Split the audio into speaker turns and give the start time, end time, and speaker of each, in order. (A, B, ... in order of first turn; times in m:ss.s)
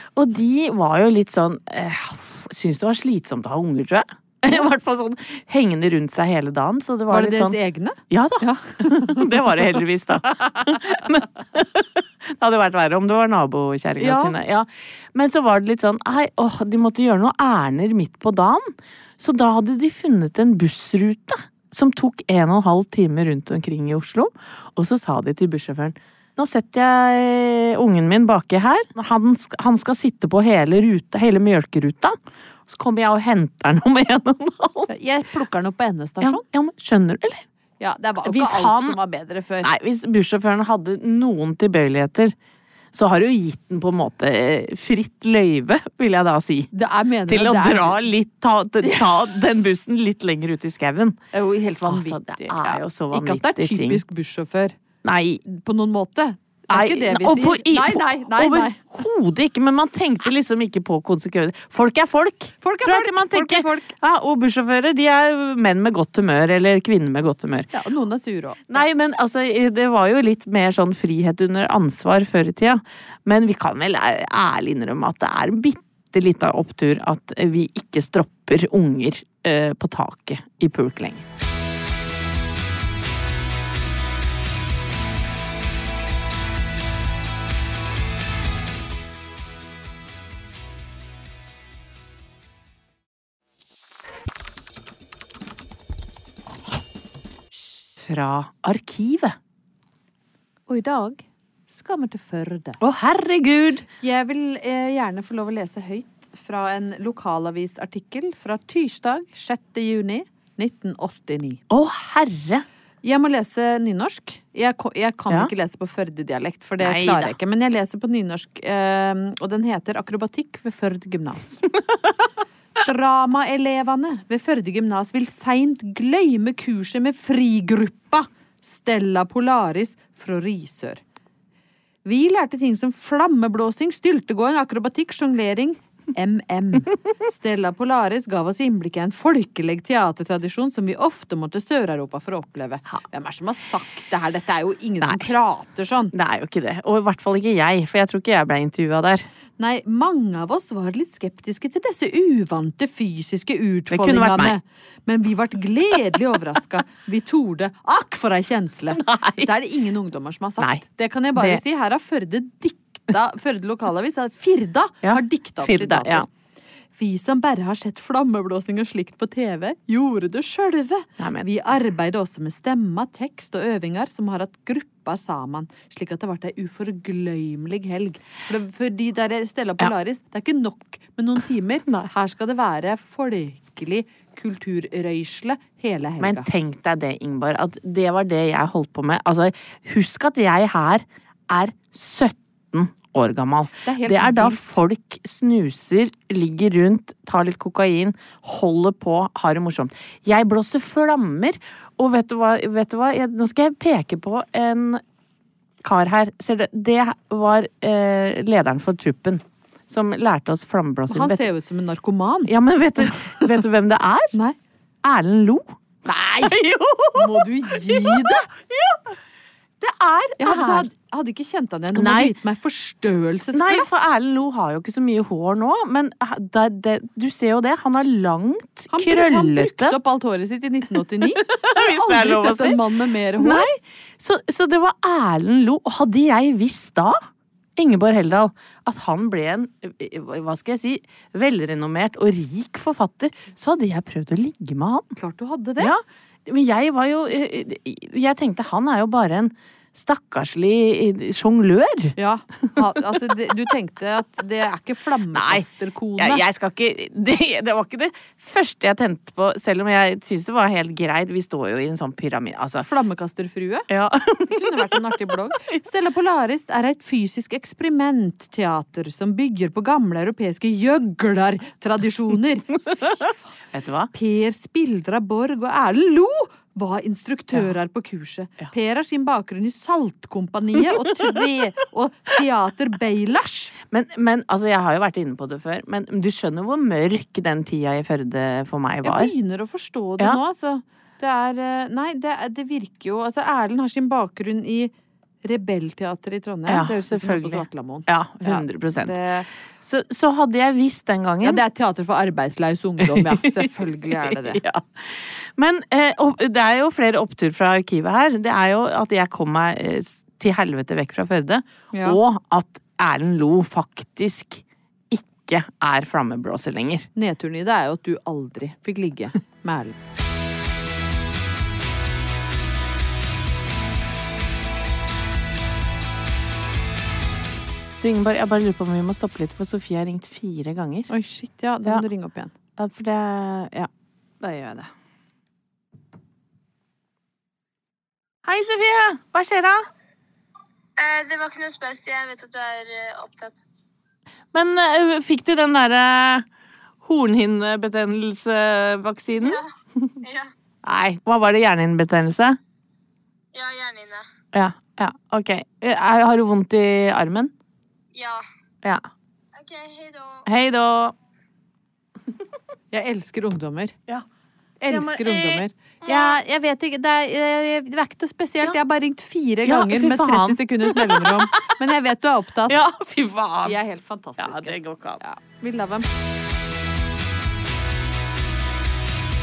0:00.2-0:07.6 A
0:07.1-0:09.7 B
0:08.1-0:11.9 A
0:12.4-0:32.2 A
0:14.0-0:14.4 B
0:32.7-0:34.9 A
0:34.9-0:36.4 B
0:36.2-0:37.4 A
0:37.8-0:39.7 B
0:38.2-0:39.0 A
0:39.6-0:42.3 A
0:42.9-0:46.7 A
0:46.7-0:48.0 B
0:47.3-0:51.2 A
0:48.8-0:49.1 B
0:51.3-0:54.8 B
0:51.8-0:54.0 A
0:55.0-0:55.4 A
0:55.5-0:58.8 B
0:56.7-1:07.7 A
1:02.6-1:03.9 B
1:07.7-1:08.8 B
1:08.7-1:21.2 A
1:38.0-1:39.4 A
1:40.7-1:42.8 B
1:42.8-1:43.9 A
1:44.0-1:51.6 B
1:51.7-1:52.6 A
1:53.0-2:01.6 B
1:56.8-1:57.4 A
2:02.8-2:11.0 B
2:12.0-2:26.1 B
2:25.0-2:25.3 A
2:26.1-2:29.3 A
2:29.6-2:46.3 B
2:33.9-2:34.6 A
2:38.9-2:39.5 A
2:40.6-2:40.8 A
2:41.4-2:41.6 A
2:45.0-2:46.3 A
2:47.0-3:06.5 B
2:51.2-2:51.5 A
3:06.2-3:25.0 A
3:13.9-3:14.6 B
3:25.8-3:31.5 A
3:31.1-3:33.5 B
3:32.5-3:34.4 A
3:35.0-3:35.8 A
3:36.1-3:36.6 B
3:36.4-3:39.0 A
3:37.2-3:38.5 B
3:39.8-3:40.9 A
3:40.4-3:44.0 B
3:41.9-3:42.3 A
3:43.5-3:50.0 A
3:48.9-3:53.7 B
3:51.2-3:52.8 A
3:53.4-3:57.2 A
3:57.8-4:05.1 A
4:05.2-4:05.9 B
4:05.8-4:12.2 A
4:12.2-4:16.4 B
4:12.8-4:13.3 A
4:15.3-4:15.7 A
4:16.2-4:22.9 A
4:22.8-4:23.9 B
4:23.9-4:25.8 A
4:24.5-4:33.4 B
4:32.9-4:33.2 A
4:33.7-4:34.1 A
4:34.1-4:43.7 B
4:43.9-4:49.3 A
4:49.0-4:54.9 B
4:55.4-4:59.5 B
4:56.7-4:59.2 A
4:59.8-5:01.6 A
5:01.4-5:04.6 B
5:03.0-5:17.1 A
5:11.9-5:12.2 B
5:17.2-5:20.0 B
5:28.0-5:31.1 A
5:31.1-5:32.5 B
5:32.8-5:33.9 A
5:34.4-5:34.9 A
5:38.4-5:39.9 A
5:41.0-5:43.6 C
5:44.5-5:46.5 A
5:47.0-5:49.6 A
5:49.4-5:49.7 C
5:50.2-5:50.5 C
5:50.8-5:52.6 A
5:53.5-5:54.2 C
5:54.5-5:57.5 A
5:58.1-5:58.4 C
5:59.6-6:00.4 C
6:00.5-6:01.1 A
6:02.9-6:04.0 B
6:04.8-6:12.8 B
6:04.9-6:06.4 A
6:09.6-6:11.9 A
6:12.7-6:13.8 A
6:13.6-6:16.1 B
6:14.4-6:15.2 A